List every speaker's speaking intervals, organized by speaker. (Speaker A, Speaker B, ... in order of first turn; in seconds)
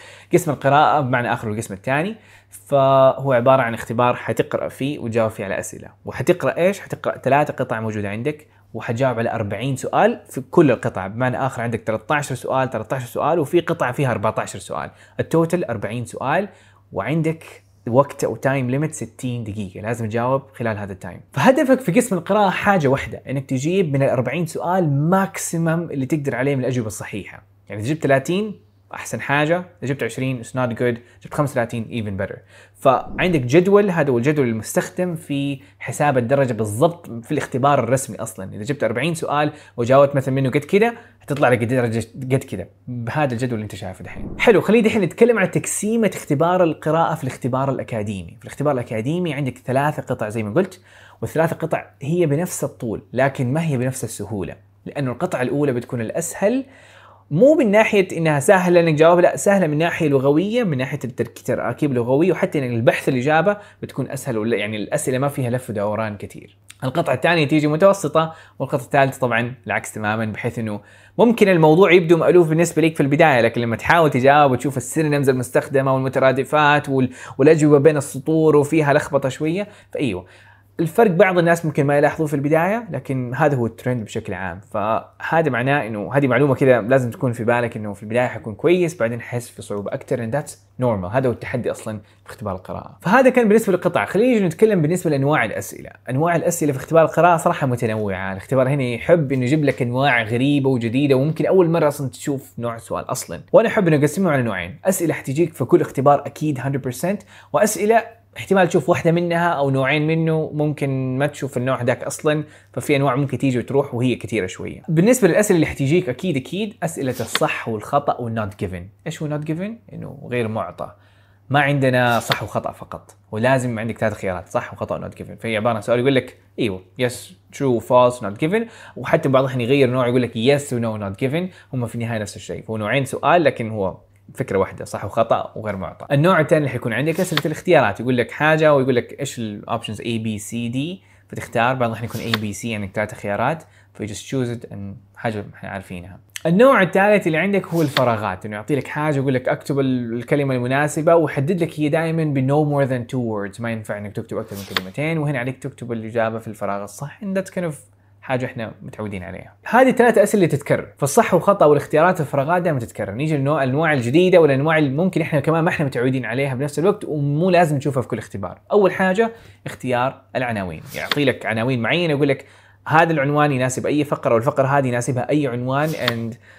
Speaker A: 0.3-56.6, 57.3-80.2, 80.8-120.9, 121.5-176.4